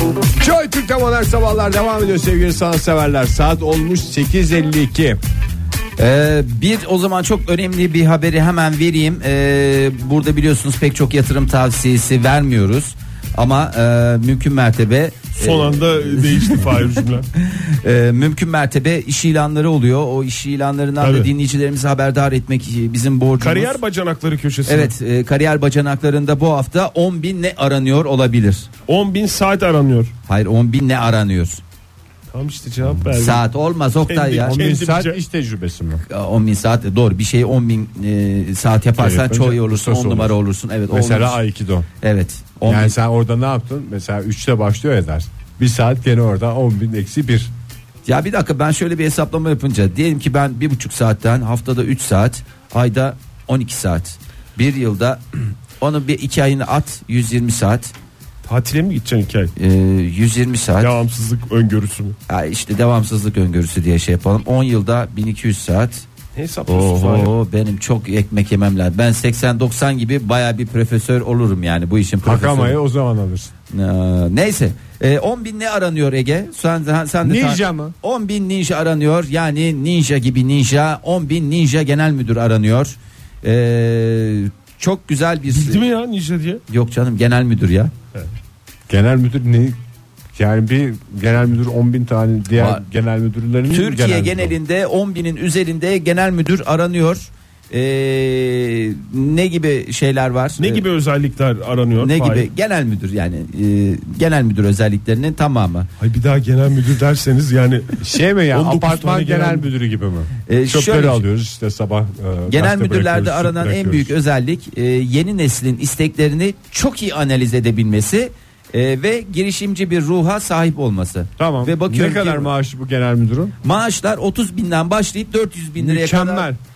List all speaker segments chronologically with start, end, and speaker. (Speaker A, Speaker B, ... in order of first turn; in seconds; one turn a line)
Speaker A: 0.4-5.2
Speaker B: 6.0-16.7
Speaker C: 15.3-17.3
Speaker B: 17.4-23.8
Speaker C: 21.0-21.3
Speaker C: 23.4-24.9
Speaker B: 24.7-28.7
Speaker C: 28.9-30.1
Speaker B: 30.3-31.6
Speaker C: 32.3-33.4
Speaker B: 33.2-34.5
Speaker C: 34.1-35.2
Speaker A: 34.4-36.0
Speaker B: 36.1-41.4
Speaker A: 39.0-40.3
Speaker A: 40.9-41.9
Speaker B: 42.0-42.9
Speaker A: 42.6-47.5
Speaker B: 48.0-55.2
Speaker B: 55.8-57.9
Speaker C: 58.4-59.5
Speaker B: 59.5-60.9
Speaker C: 60.8-62.2
Speaker B: 62.3-66.0
Speaker C: 66.3-67.3
Speaker B: 66.7-72.8
Speaker A: 72.2-73.5
Speaker B: 73.7-85.8
Speaker A: 77.2-77.9
Speaker C: 85.5-86.6
Speaker B: 86.7-87.9
Speaker A: 88.9-89.8
Speaker A: 90.3-94.5
Speaker B: 92.6-92.8
Speaker B: 93.7-100.8
Speaker C: 100.6-102.5
Speaker B: 102.0-105.9
Speaker C: 106.0-108.0
Speaker A: 108.0-114.1
Speaker C: 108.5-109.7
Speaker B: 110.5-111.2
Speaker B: 112.5-122.5
Speaker A: 121.4-123.5
Speaker B: 123.6-126.5
Speaker A: 125.8-126.6